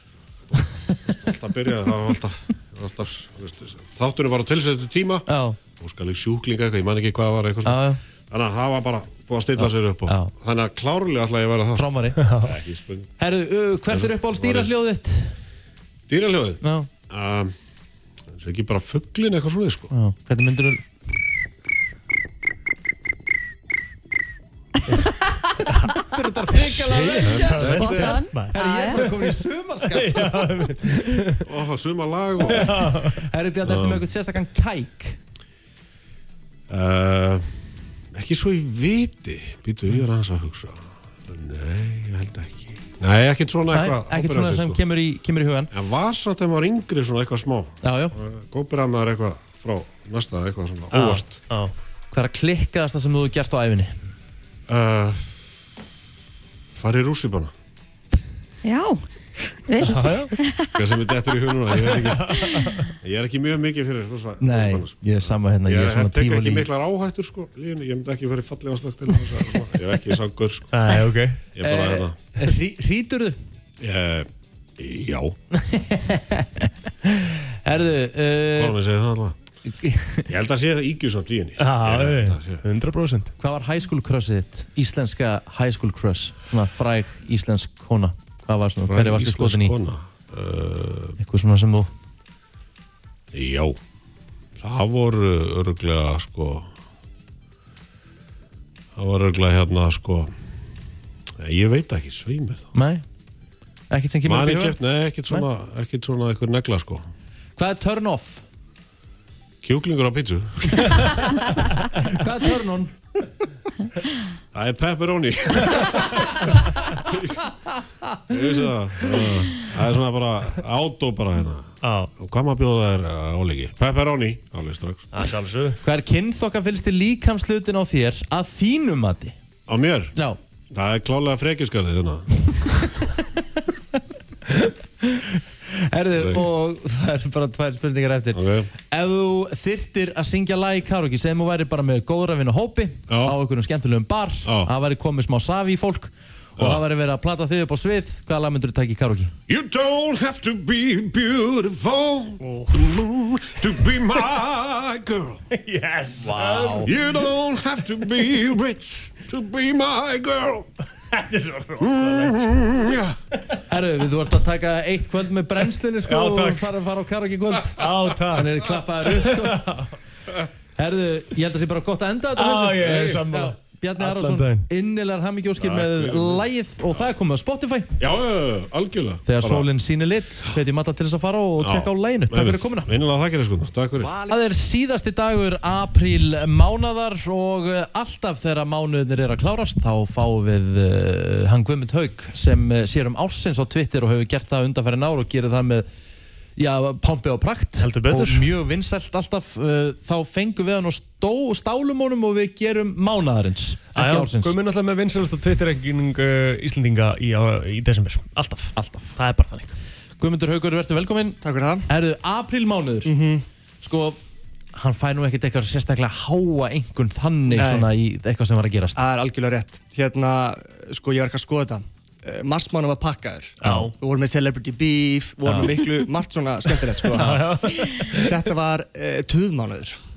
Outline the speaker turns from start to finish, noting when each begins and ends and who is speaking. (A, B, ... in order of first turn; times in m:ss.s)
0:00.6-0:13.1 A
0:05.3-0:05.6 B
0:07.6-0:08.0 B
0:09.6-0:10.3 B
0:11.7-0:12.2 B
0:12.2-0:12.5 C
0:13.2-0:15.4 B
0:13.9-0:14.7 A
0:16.1-0:17.5 A
0:16.6-0:16.9 B
0:18.4-0:19.9 A
0:19.9-0:20.8 B
0:26.0-0:30.9 B
0:26.9-0:31.4 C
0:27.2-0:27.9 A
0:27.5-0:29.0 D
0:31.4-0:32.8 A
0:32.4-0:35.2 B
0:32.4-0:33.2 C
0:33.7-0:34.0 A
0:36.7-0:37.6 A
0:38.1-0:44.8 A
0:43.7-0:45.7 B
0:45.7-0:51.4 A
0:47.8-0:48.2 B
0:50.9-0:51.7 C
0:52.1-0:54.0 B
0:54.7-0:55.3 A
0:56.8-0:57.5 A
0:58.6-0:59.0 D
0:59.6-1:00.7 D
0:59.9-1:00.3 C
1:00.7-1:02.4 A
1:01.9-1:02.8 C
1:03.0-1:05.0 A
1:04.4-1:06.7 B
1:05.6-1:10.7 A
1:10.7-1:11.4 C
1:11.6-1:12.2 A
1:11.6-1:13.4 B
1:13.8-1:15.4 A
1:15.5-1:18.8 B
1:18.5-1:19.4 A
1:19.7-1:20.3 B
1:20.3-1:22.6 A
1:21.6-1:23.3 C
1:23.4-1:29.7 B
1:28.9-1:31.2 A
1:31.2-1:31.9 B
1:33.3-1:33.8 A
1:34.6-1:36.7 A
1:39.0-1:40.3 A
1:41.4-1:42.7 A
1:42.7-1:43.0 B
1:43.9-1:44.8 B
1:44.3-1:47.0 A
1:47.6-1:48.4 B
1:49.6-1:50.9 A
1:52.0-1:53.0 B
1:54.5-1:56.2 A
1:58.3-2:05.0 A
2:01.8-2:02.1 C
2:05.1-2:05.8 C
2:05.8-2:09.3 B
2:09.7-2:10.1 A
2:10.7-2:13.0 A
2:15.0-2:29.3 B
2:16.2-2:16.4 A
2:18.3-2:18.7 A
2:23.1-2:23.4 A
2:24.4-2:24.7 A
2:29.5-2:35.4 A
2:32.4-2:32.9 C
2:35.5-2:36.9 C
2:36.2-2:36.9 B
2:36.8-2:40.7 A
2:41.1-2:42.6 C
2:41.8-2:43.2 A
2:43.7-2:49.9 B
2:46.0-2:46.7 C
2:47.8-2:48.5 C
2:49.2-2:50.0 C
2:50.8-2:57.9 B
2:52.3-2:54.7 C
2:55.6-2:56.4 A
2:58.0-2:59.7 A
2:59.3-3:02.9 B
3:01.6-3:04.1 A
3:04.0-3:04.4 E
3:04.3-3:15.9 B
3:16.6-3:24.6 B
3:17.8-3:18.5 C
3:24.0-3:29.7 C
3:28.8-3:29.1 B
3:30.2-3:33.1 B
3:31.4-3:31.9 E
3:33.0-3:33.4 E
3:33.8-3:34.2 B
3:34.7-3:39.0 B
3:37.5-3:37.9 E
3:39.0-3:47.6 E
3:43.6-3:43.9 C
3:43.6-3:43.9 B
3:45.4-3:45.8 B
3:47.1-3:47.4 B
3:47.1-3:48.3 C
3:48.1-3:50.0 E